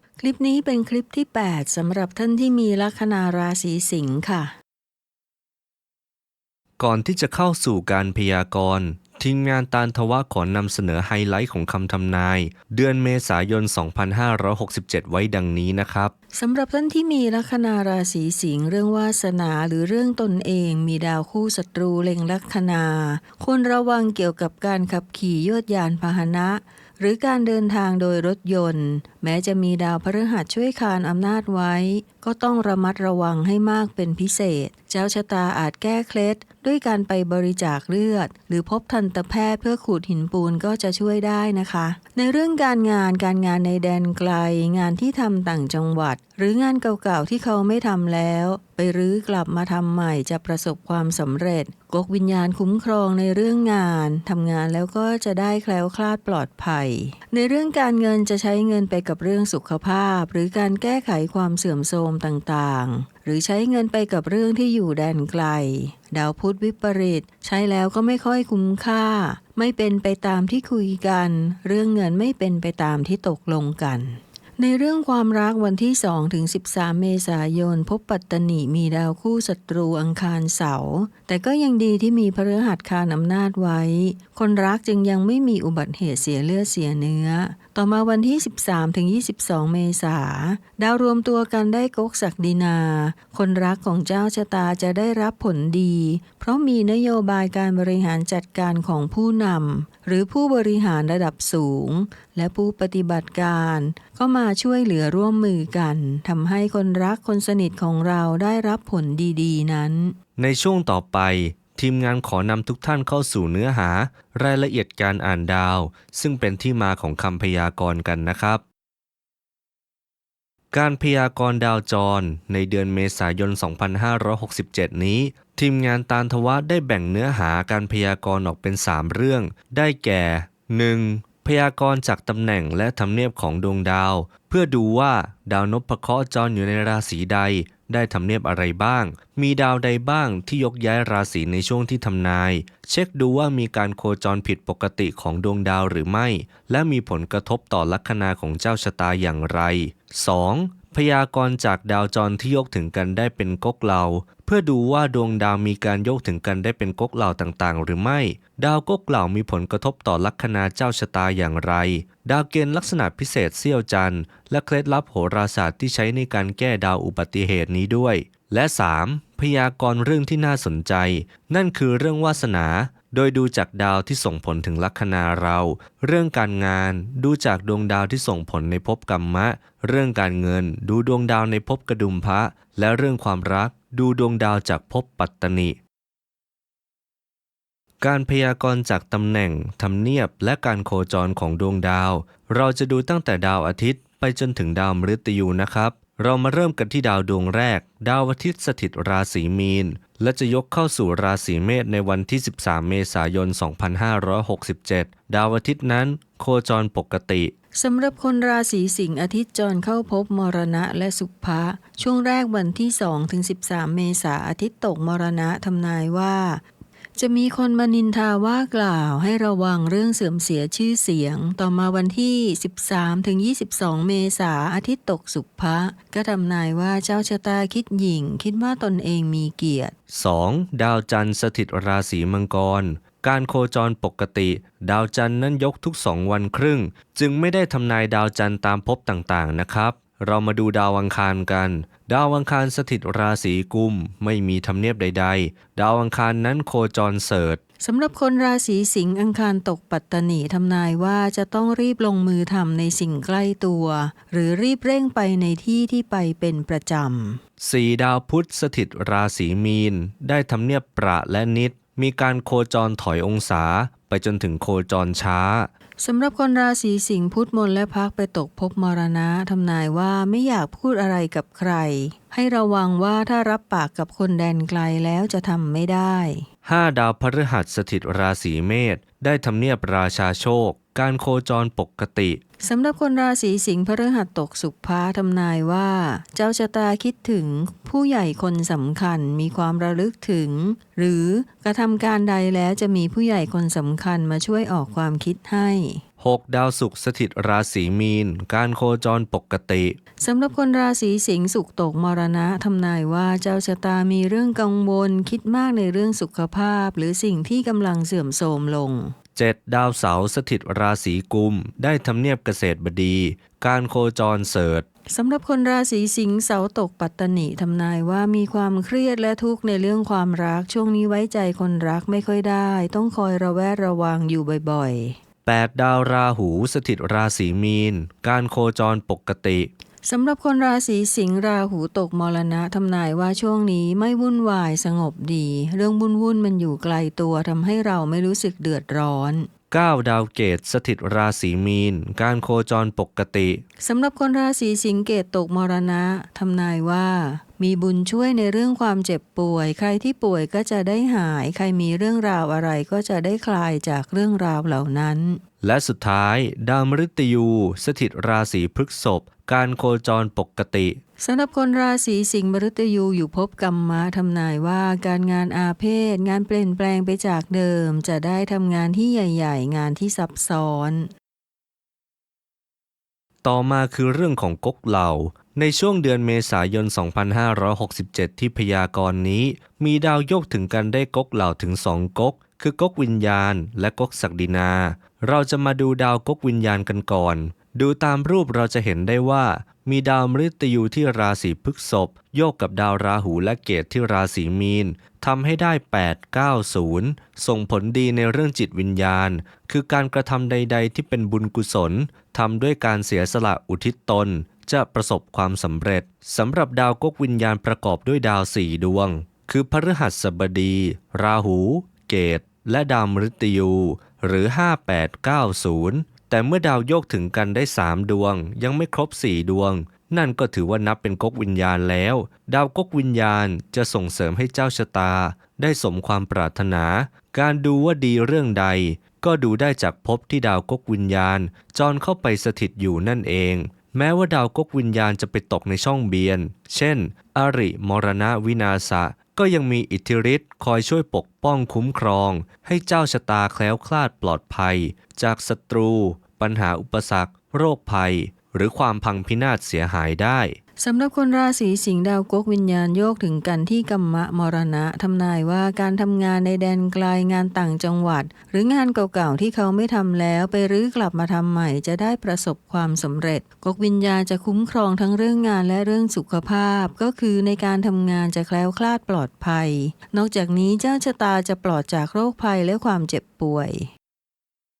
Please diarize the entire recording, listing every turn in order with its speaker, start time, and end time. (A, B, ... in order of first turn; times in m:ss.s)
0:00.2-0:04.5 A
0:06.8-0:16.1 B
0:16.3-1:50.1 A
1:50.4-1:58.6 B
2:00.7-3:05.8 B
3:08.0-3:27.5 B
3:27.8-3:36.6 A
3:37.2-3:49.9 A
3:50.1-4:07.6 B
4:07.8-4:17.4 A
4:17.6-4:25.7 B
4:26.0-4:36.5 A
4:36.6-4:42.4 B
4:42.6-4:56.0 A
4:56.2-5:00.0 B
5:00.2-5:09.1 A
5:09.4-5:14.9 B
5:15.1-5:25.2 A
5:25.4-5:29.7 B
5:30.0-5:39.5 A
5:39.7-5:43.6 B
5:43.8-5:55.4 A
5:55.6-6:01.0 B
6:01.2-6:11.1 A
6:13.4-7:30.6 B
7:30.8-7:53.9 A